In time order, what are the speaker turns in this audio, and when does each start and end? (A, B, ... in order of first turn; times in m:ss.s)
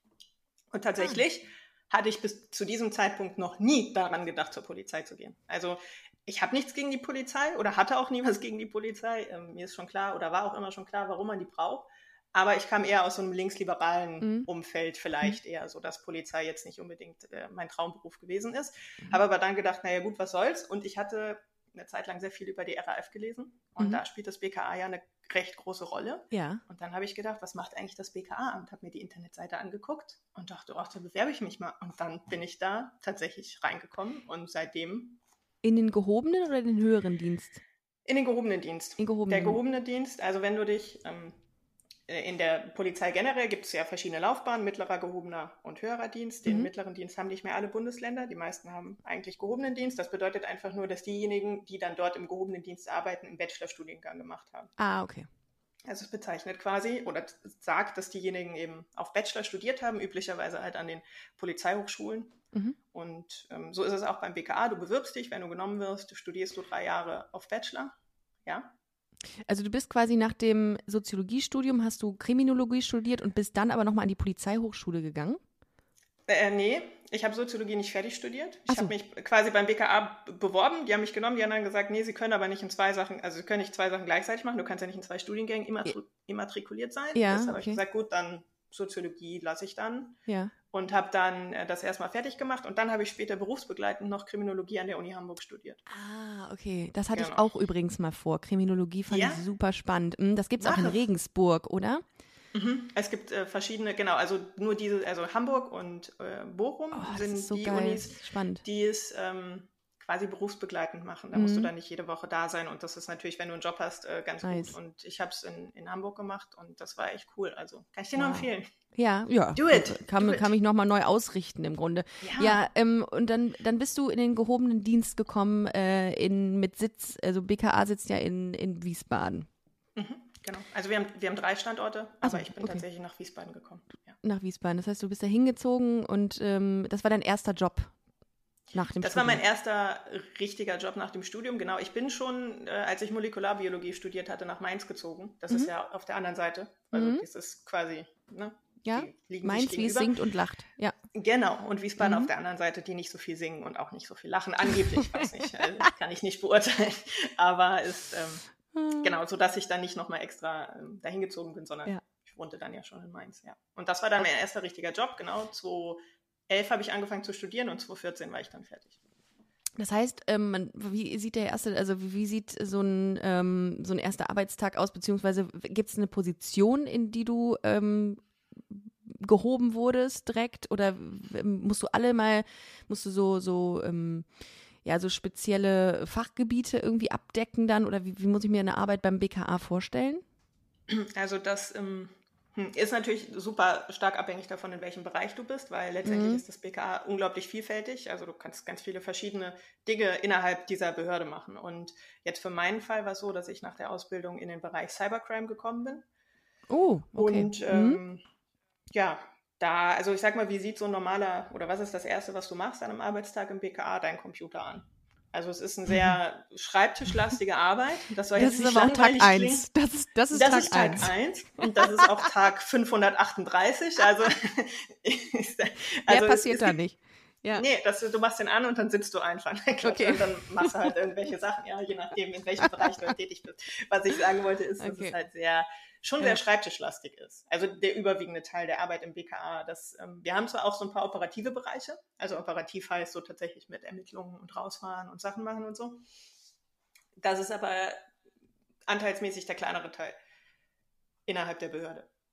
0:00.7-0:35.2 A
0:14.2-0:14.5 B
0:26.3-0:26.6 B
0:35.6-0:37.6 B
0:38.0-0:41.4 A
0:39.0-0:39.6 B
0:42.1-0:54.7 A
0:46.4-0:46.7 B
0:54.8-0:55.3 B
0:55.9-1:02.4 A
1:02.9-1:08.7 A
1:09.4-1:15.4 B
1:16.3-1:35.8 A
1:27.1-1:27.8 B
1:30.3-1:30.5 B
1:35.9-1:42.0 B
1:37.1-1:37.4 A
1:39.1-1:39.4 A
1:40.6-1:41.0 A
1:42.5-1:58.7 A
1:46.9-1:48.6 B
1:51.3-1:51.7 B
1:54.4-1:54.7 B
1:58.2-2:09.5 B
1:59.6-2:00.5 A
2:02.2-2:02.6 A
2:10.0-2:14.2 A
2:12.2-2:12.8 B
2:14.2-2:17.9 B
2:18.7-2:19.4 B
2:19.0-2:30.1 A
2:26.9-2:27.2 B
2:28.8-2:30.9 B
2:31.1-2:38.4 A
2:32.0-2:32.3 B
2:38.7-2:39.1 B
2:39.0-2:49.0 A
2:49.8-3:04.3 B
3:04.8-3:10.2 B
3:10.9-3:26.0 A
3:16.0-3:16.4 B
3:26.7-3:28.0 B
3:27.1-3:28.2 A
3:28.9-3:39.6 A
3:38.3-3:41.1 B
3:40.3-3:46.8 A
3:41.8-3:42.1 B
3:46.1-3:47.6 B
3:47.5-4:06.0 A
3:49.8-3:50.7 B
3:54.8-3:55.1 B
4:07.2-4:08.0 A
4:08.9-4:10.1 A
4:11.3-4:12.1 A